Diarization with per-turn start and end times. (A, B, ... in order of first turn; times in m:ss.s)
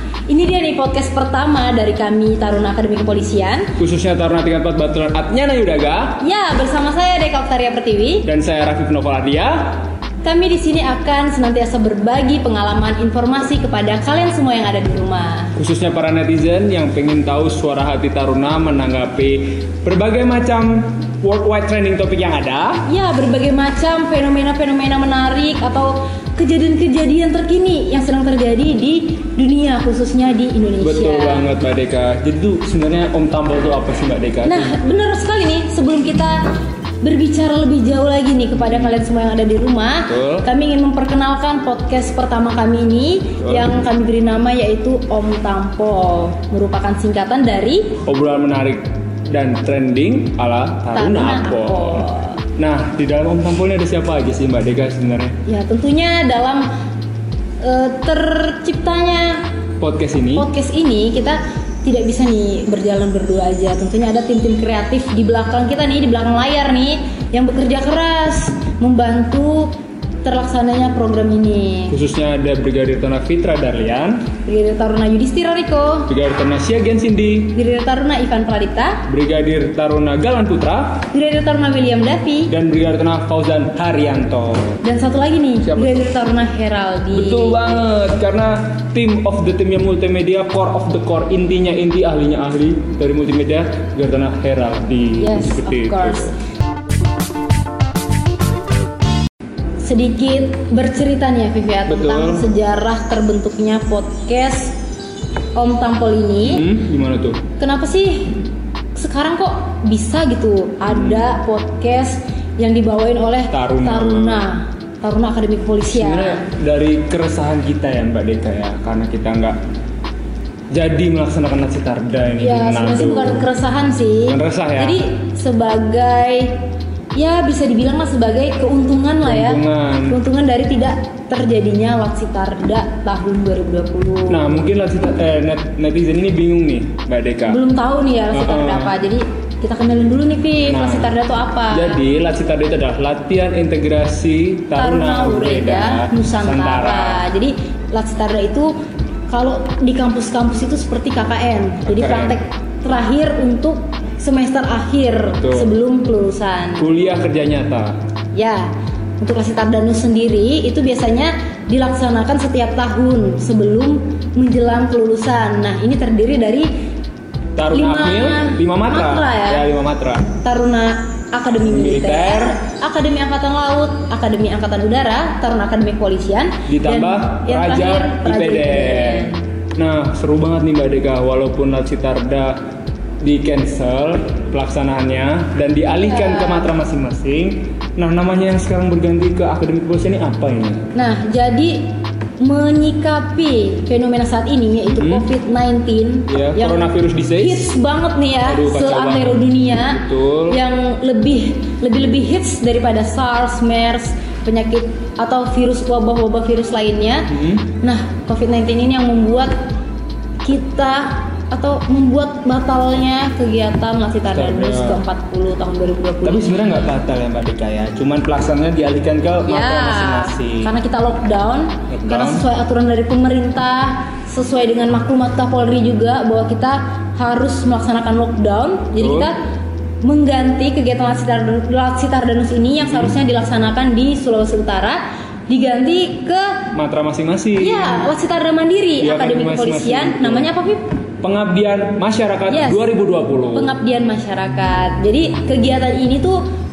0:00.3-0:03.7 A
0:03.8-0:06.2 B
0:06.2-0:08.3 A
0:08.2-0:09.8 B
0:10.2-0:15.6 A
0:15.6-0:22.9 B
0:22.8-0:31.5 A
0:30.8-0:34.7 B
0:34.4-0:36.4 A
0:37.0-0:48.0 A
0:38.6-0:39.0 B
0:40.1-0:40.4 B
0:43.4-0:43.8 B
0:48.0-0:52.1 B
0:50.9-0:52.4 A
0:52.6-0:55.4 B
0:55.4-0:56.7 A
0:57.6-0:59.4 A
0:59.8-1:00.5 B
1:00.3-1:09.7 A
1:10.2-1:11.9 A
1:11.9-1:14.3 B
1:14.4-1:16.1 A
1:16.1-1:17.6 B
1:17.5-1:19.0 A
1:19.1-1:21.0 B
1:21.1-1:22.5 A
1:22.5-1:24.8 B
1:24.8-1:27.7 A
1:25.6-1:26.1 B
1:27.1-1:36.3 B
1:35.2-1:36.3 A
1:39.8-1:44.8 A
1:41.9-1:42.4 B
1:45.5-1:46.6 A
1:46.4-1:47.4 B
1:47.6-1:48.4 A
1:48.9-1:56.4 A
1:50.9-1:51.3 B
1:53.5-1:54.4 B
1:55.9-1:59.6 B
2:00.7-2:03.5 B
2:02.4-2:06.6 A
2:04.3-2:05.0 B
2:07.1-2:14.5 A
2:09.2-2:10.2 B
2:14.3-2:17.6 B
2:17.5-2:22.0 A
2:18.3-2:18.9 B
2:20.6-2:21.1 B
2:21.7-2:27.2 B
2:24.8-2:28.7 A
2:29.3-2:36.9 A
2:31.8-2:32.4 B
2:35.2-2:35.7 B
2:36.8-2:38.0 B
2:38.3-2:46.7 A
2:47.6-2:50.3 B
2:47.7-2:49.6 A
2:50.4-2:59.4 A
2:51.6-2:52.6 B
2:56.7-3:02.6 B
3:03.2-3:10.8 B
3:05.9-3:06.7 A
3:10.9-3:29.5 A
3:14.9-3:15.3 B
3:16.3-3:17.7 B
3:18.4-3:20.6 B
3:27.3-3:27.6 B
3:30.4-3:36.8 A
3:34.3-3:35.0 B
3:36.2-3:40.7 B
3:39.4-3:49.3 A
3:41.9-3:42.4 B
3:49.0-3:49.3 B
3:50.0-3:56.6 A
3:52.8-3:53.1 B
3:56.7-3:58.1 B
3:57.6-4:00.9 A
3:59.0-4:00.5 B
4:01.2-4:03.7 B
4:02.5-4:02.8 A
4:03.5-4:06.4 A